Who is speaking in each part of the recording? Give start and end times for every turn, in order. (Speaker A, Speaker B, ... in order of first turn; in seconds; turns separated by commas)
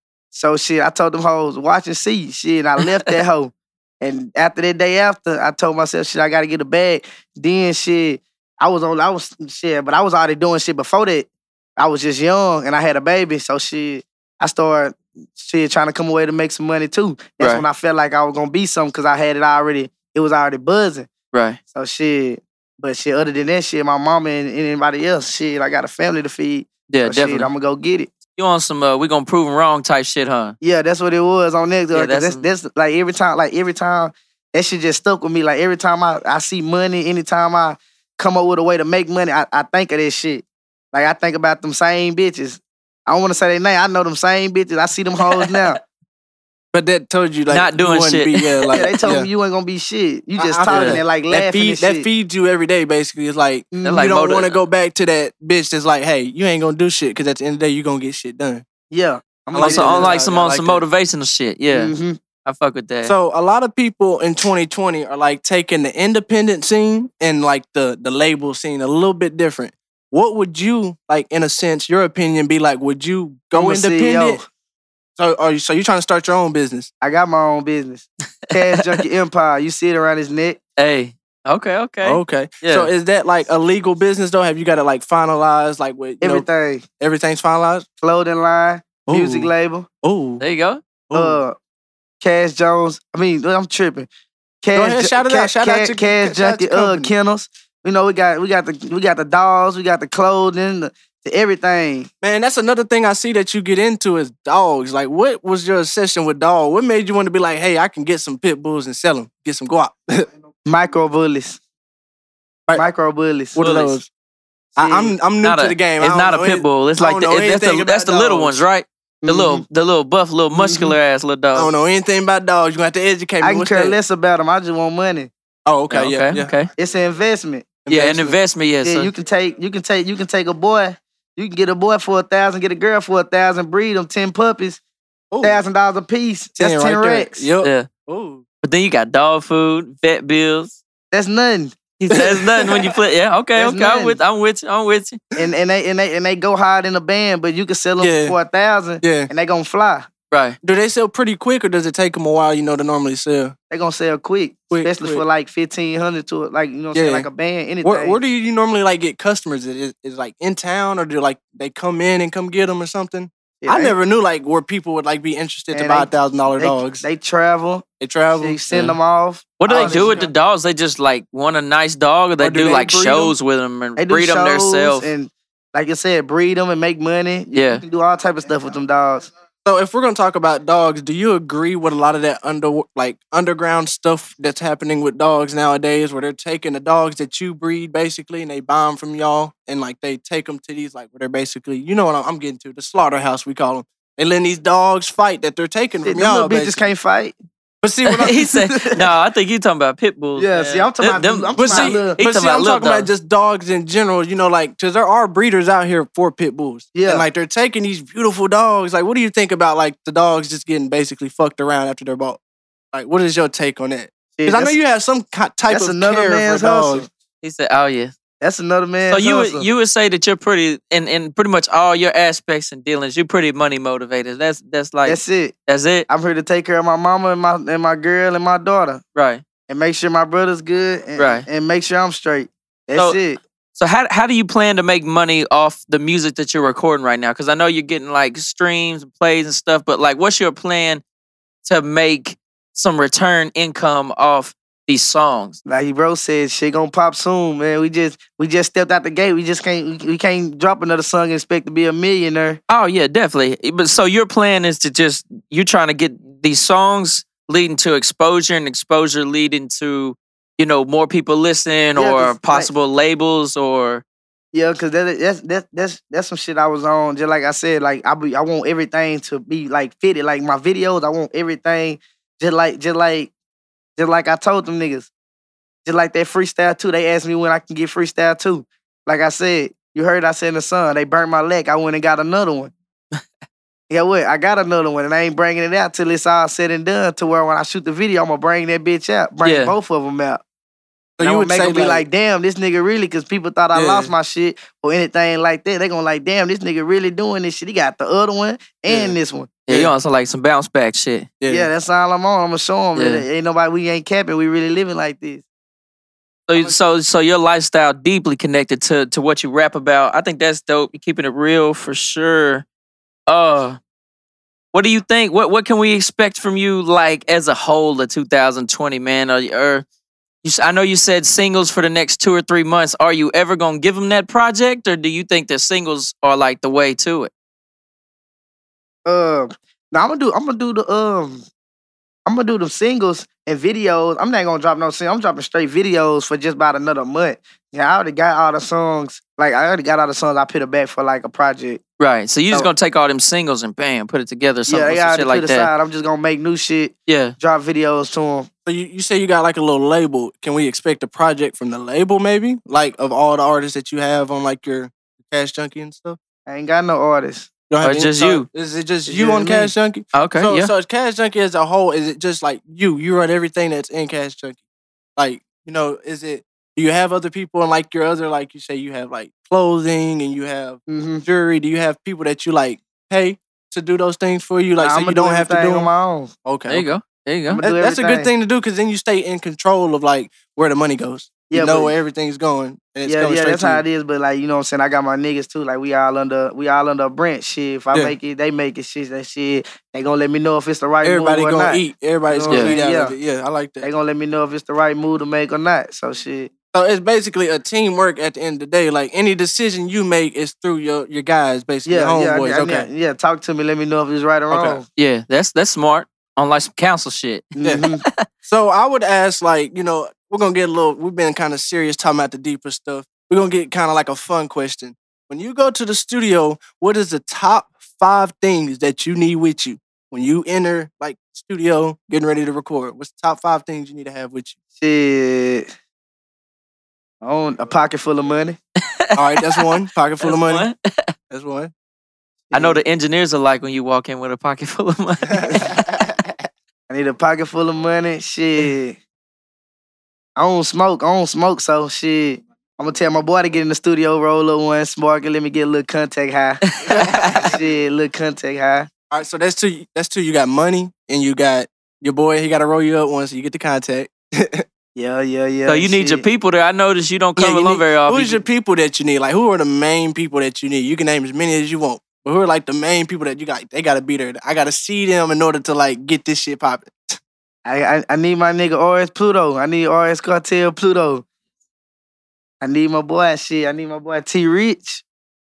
Speaker A: 0.3-21.1, Speaker B: 17.4-17.6, Speaker B: 21.3-21.6, Speaker A: 21.7-28.1, Speaker B: 26.9-27.5, Speaker B: 28.4-30.6, Speaker A: 30.6-45.8, Speaker B: 31.9-32.5, Speaker B: 45.2-45.8, Speaker C: 46.7-49.3, Speaker B: 47.5-48.7, Speaker A: 48.7-52.1, Speaker C: 50.4-58.6, Speaker B: 50.7-51.0, Speaker A: 53.7-54.1, Speaker B: 53.9-54.6, Speaker A: 58.9-60.2, Speaker C: 59.5-60.8, Speaker B: 59.6-61.9, Speaker A: 61.7-62.2, Speaker B: 62.5-63.1, Speaker C: 63.0-74.4, Speaker A: 73.5-74.5, Speaker C: 75.2-76.9, Speaker A: 77.0-80.6, Speaker B: 78.5-79.0, Speaker B: 80.8-82.9, Speaker C: 82.0-86.5, Speaker A: 86.2-86.8, Speaker C: 87.0-87.9, Speaker A: 88.0-89.9, Speaker C: 89.1-89.5, Speaker C: 90.0-90.4, Speaker B: 90.4-90.8, Speaker C: 91.1-91.4, Speaker A: 91.1-91.5, Speaker A: 92.2-94.1, Speaker A: 94.6-102.1, Speaker C: 94.7-97.1, Speaker C: 102.2-110.3, Speaker A: 110.7-111.6, Speaker A: 112.7-113.8, Speaker C: 113.5-114.1, Speaker B: 113.6-114.0, Speaker A: 114.8-115.2, Speaker C: 114.8-118.6, Speaker B: 115.4-121.7, Speaker A: 119.2-119.7, Speaker A: 120.5-121.0, Speaker C: 121.5-124.0, Speaker A: 123.4-125.3, Speaker C: 125.7-126.5, Speaker B: 125.9-126.7, Speaker A: 126.8-127.7, Speaker C: 127.9-128.4, Speaker B: 127.9-129.1, Speaker A: 128.8-134.8, Speaker C: 135.3-135.6, Speaker A: 135.4-137.5, Speaker C: 136.6-138.4, Speaker B: 137.6-137.9, Speaker B: 138.6-140.8, Speaker A: 141.1-141.8, Speaker B: 142.0-145.2, Speaker C: 142.1-142.9, Speaker A: 143.6-144.2, Speaker A: 145.4-150.1, Speaker C: 148.0-148.4, Speaker C: 149.0-149.3, Speaker B: 150.3-150.6, Speaker C: 150.6-153.6, Speaker A: 153.7-158.2, Speaker C: 154.7-155.2, Speaker C: 156.9-157.3, Speaker C: 157.8-167.1, Speaker A: 163.6-163.9, Speaker A: 165.7-167.8, Speaker C: 168.0-168.9, Speaker A: 168.4-170.3, Speaker B: 169.6-175.1, Speaker C: 169.7-170.3, Speaker C: 172.4-173.3, Speaker A: 174.0-179.3, Speaker B: 177.5-177.8, Speaker C: 179.7-196.8, Speaker A: 196.1-197.3, Speaker C: 197.8-198.4, Speaker B: 198.1-203.1, Speaker A: 198.2-199.1, Speaker A: 200.4-202.2, Speaker C: 201.6-212.4, Speaker A: 206.9-207.3, Speaker C: 212.9-217.1, Speaker A: 214.4-214.8, Speaker A: 215.7-217.1, Speaker B: 217.4-218.1, Speaker A: 218.4-219.7, Speaker B: 219.1-226.1, Speaker A: 225.1-225.6, Speaker A: 226.1-229.0, Speaker B: 229.2-229.4, Speaker A: 229.7-233.4, Speaker B: 231.2-231.5, Speaker B: 233.8-241.0, Speaker B: 241.7-245.6, Speaker A: 245.7-252.6, Speaker B: 252.7-264.0, Speaker A: 262.0-262.7, Speaker A: 264.5-273.3, Speaker A: 274.0-275.1, Speaker A: 275.9-282.7, Speaker A: 283.9-290.4, Speaker B: 289.4-289.8, Speaker C: 291.2-292.1, Speaker A: 291.2-299.5, Speaker C: 293.7-294.1, Speaker C: 298.9-299.2, Speaker B: 299.7-301.3, Speaker C: 301.4-301.7, Speaker A: 301.5-305.4, Speaker B: 303.0-303.2, Speaker B: 306.5-312.6, Speaker B: 313.3-313.8, Speaker B: 314.7-319.9, Speaker B: 320.4-327.3, Speaker A: 329.1-331.4, Speaker A: 332.3-341.8, Speaker B: 342.0-345.7, Speaker A: 344.7-348.5, Speaker B: 347.1-347.4, Speaker C: 348.7-356.2, Speaker A: 356.5-357.5, Speaker C: 357.7-364.6, Speaker B: 357.8-358.5, Speaker A: 359.1-359.7, Speaker B: 360.1-360.7, Speaker C: 365.2-375.9, Speaker A: 370.9-371.2, Speaker A: 374.8-376.3, Speaker C: 376.4-376.9, Speaker B: 376.7-377.6, Speaker A: 377.5-378.3, Speaker C: 377.6-383.8, Speaker A: 381.5-381.9, Speaker A: 383.1-393.2, Speaker C: 391.0-393.9, Speaker B: 392.5-392.8, Speaker A: 393.8-396.5, Speaker C: 396.7-402.9, Speaker A: 401.9-404.9, Speaker C: 404.5-404.8, Speaker B: 405.0-408.2, Speaker A: 407.6-408.0, Speaker C: 408.4-424.6, Speaker A: 424.8-425.7, Speaker A: 427.2-428.6, Speaker B: 429.0-429.7, Speaker C: 429.1-430.7, Speaker B: 430.2-431.1, Speaker C: 431.3-431.7, Speaker A: 432.5-432.8, Speaker B: 432.5-435.9, Speaker C: 435.3-436.2, Speaker A: 436.9-439.0, Speaker A: 440.4-446.6, Speaker C: 446.9-447.6, Speaker B: 447.0-447.4, Speaker A: 447.3-448.9, Speaker C: 449.1-454.6, Speaker A: 454.9-456.3, Speaker B: 455.7-458.4, Speaker C: 457.4-467.2, Speaker A: 467.6-471.2, Speaker A: 472.6-475.0